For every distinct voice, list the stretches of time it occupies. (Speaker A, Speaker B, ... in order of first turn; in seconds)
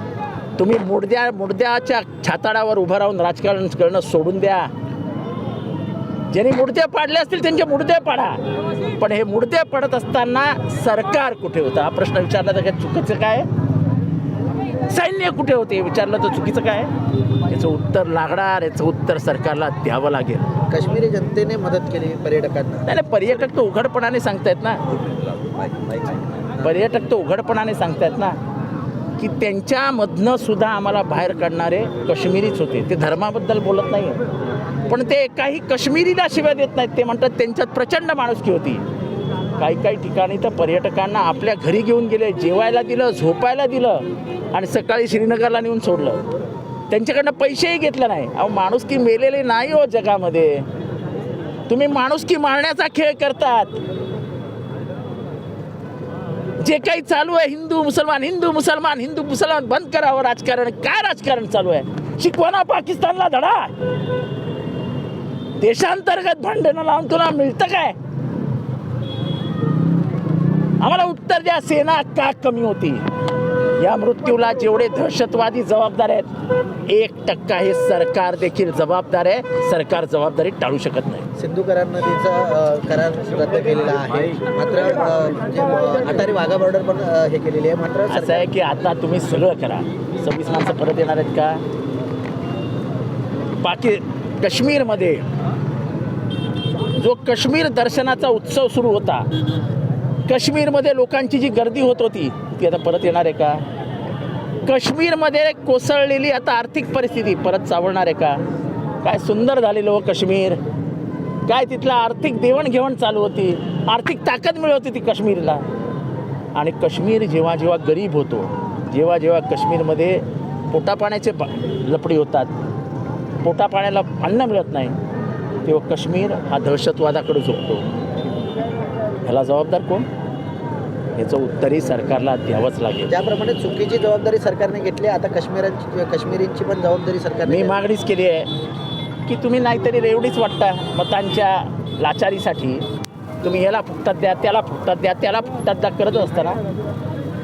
Speaker A: 0.6-4.7, 6.3-8.4, 9.0-13.5, 14.9-16.9, 17.5-20.4, 22.9-24.8, 26.6-28.4, 29.2-34.2, 34.9-38.8, 39.6-46.2, 46.9-50.6, 51.7-53.8, 56.6-63.7, 65.6-68.0, 70.8-73.0, 73.8-76.3, 76.8-81.2, 88.1-91.6, 93.6-95.2, 96.9-99.2, 100.2-103.6, 104.6-108.4, 109.0-110.6, 111.5-115.7, 116.5-122.5, 123.4-124.9, 125.6-127.8, 129.2-130.1, 131.2-133.1, 137.4-138.5, 139.2-142.8, 143.4-146.6
Speaker B: 20.7-22.8, 25.6-26.7, 81.4-88.4, 133.1-137.8